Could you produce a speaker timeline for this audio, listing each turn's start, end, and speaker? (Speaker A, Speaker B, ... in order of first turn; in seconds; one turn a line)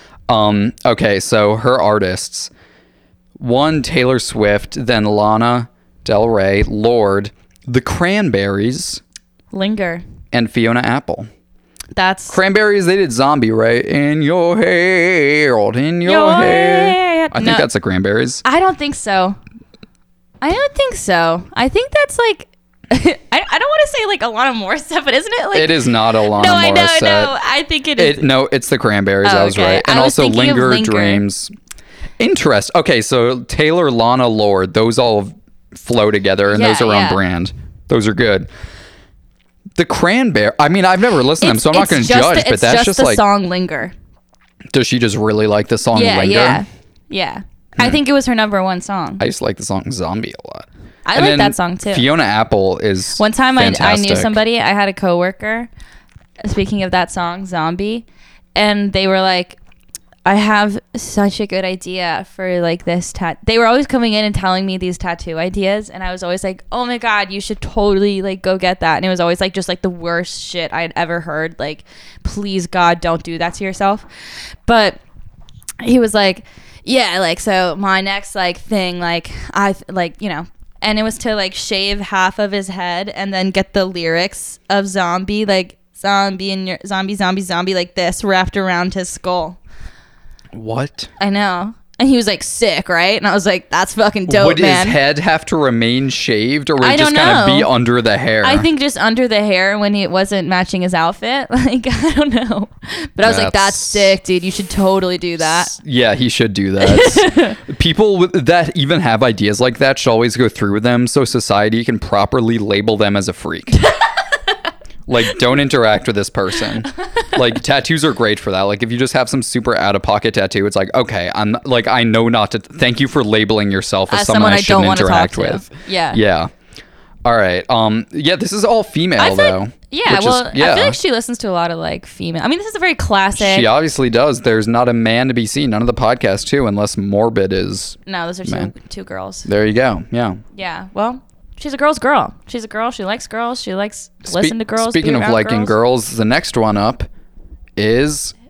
Speaker A: 0.3-2.5
Speaker A: 3.4-9.0
Speaker B: 9.5-10.0
Speaker A: 10.3-11.3
Speaker B: 11.9-12.4
Speaker A: 12.3-18.4
Speaker B: 16.1-17.7
Speaker B: 18.4-19.4
Speaker B: 20.4-28.3
Speaker A: 25.5-27.3
Speaker A: 28.0-31.5
Speaker B: 29.2-31.2
Speaker A: 32.2-38.5
Speaker B: 36.5-37.2
Speaker A: 39.8-43.2
Speaker B: 41.4-43.9
Speaker A: 44.7-46.6
Speaker B: 45.9-49.2
Speaker A: 49.2-54.4
Speaker B: 51.0-52.0
Speaker B: 53.2-55.7
Speaker B: 56.4-59.6
Speaker B: 60.2-74.1
Speaker B: 74.7-75.0
Speaker B: 75.8-89.6
Speaker A: 90.5-91.1
Speaker B: 91.2-95.0
Speaker A: 94.3-98.7
Speaker B: 96.8-97.7
Speaker B: 98.4-105.8
Speaker A: 103.2-104.2
Speaker A: 105.4-113.8
Speaker B: 106.8-107.6
Speaker A: 115.1-126.5
Speaker B: 124.1-126.2
Speaker A: 127.2-131.0
Speaker B: 129.2-133.7
Speaker A: 133.4-138.7
Speaker B: 138.1-139.5
Speaker A: 139.5-140.4
Speaker B: 140.5-145.8
Speaker A: 144.2-147.1
Speaker A: 147.8-148.3